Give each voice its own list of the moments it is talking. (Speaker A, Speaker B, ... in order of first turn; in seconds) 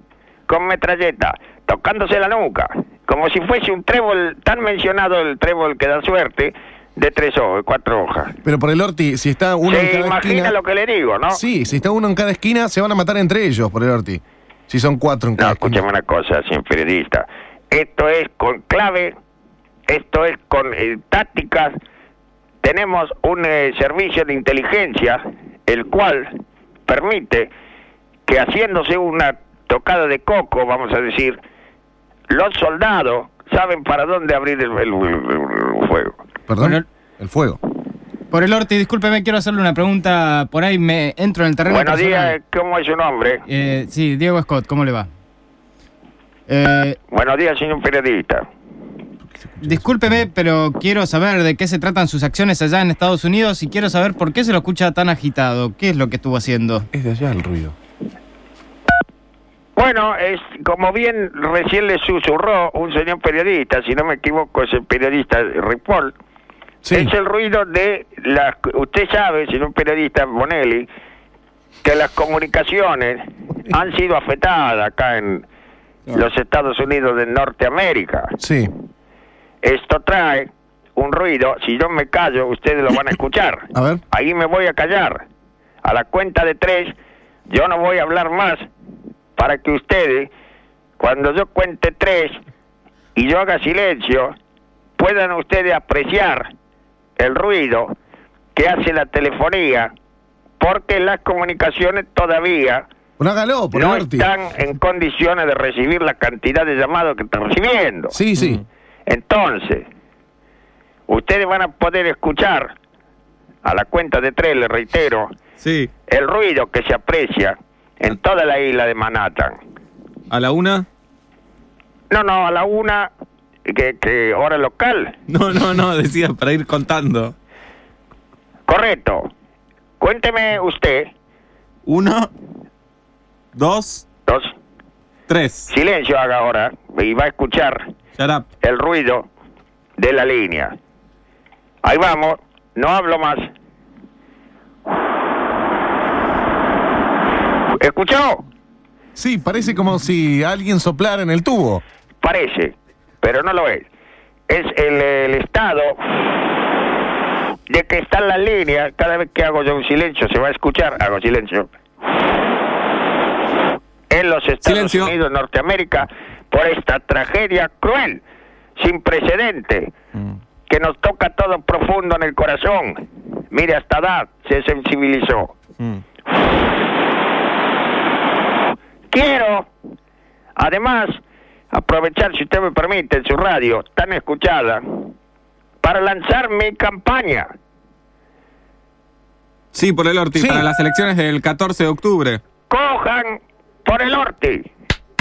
Speaker A: 0.5-8.4, 9.7-11.4, 15.4-19.1, 19.9-21.8, 22.6-26.4, 26.9-27.5, 28.3-31.4, 32.3-36.2, 41.7-43.4, 47.1-48.5, 59.8-66.2, 66.9-70.9, 71.8-75.5, 76.1-78.4, 79.6-85.2, 85.8-86.9, 87.5-88.7, 89.4-90.3, 91.0-92.4, 93.2-94.3, 95.0-96.5, 97.2-97.9, 98.5-99.9, 100.6-102.9, 103.7-108.2, 109.1-109.9, 111.1-112.7, 113.6-115.3, 116.1-119.6, 122.1-123.1, 123.7-125.2, 128.7-129.3, 130.0-131.1, 134.3-134.6, 135.7-137.8, 138.6-139.3, 140.0-140.7, 141.8-143.5, 147.8-148.4, 152.2-153.9, 154.5-156.3, 157.7-161.7, 164.1-168.2, 168.8-169.9, 170.7-173.0, 173.5-175.5, 179.1-179.7, 180.6-185.1, 185.8-187.5, 192.7-194.7
Speaker B: 8.4-10.6, 11.3-15.8, 36.5-37.6, 49.3-50.3, 56.9-57.8, 66.8-67.1, 78.4-78.7, 83.7-84.0, 103.2-104.3, 108.1-108.6, 149.2-151.8, 190.4-190.6
Speaker C: 36.6-36.9, 38.3-42.4, 43.5-45.1, 46.5-47.0, 49.6-56.9
Speaker D: 108.4-108.6, 115.6-115.9, 120.3-120.9, 125.3-127.3, 131.9-132.3, 133.6-134.0, 135.3-135.7, 138.2-138.5, 164.6-165.2, 189.7-192.4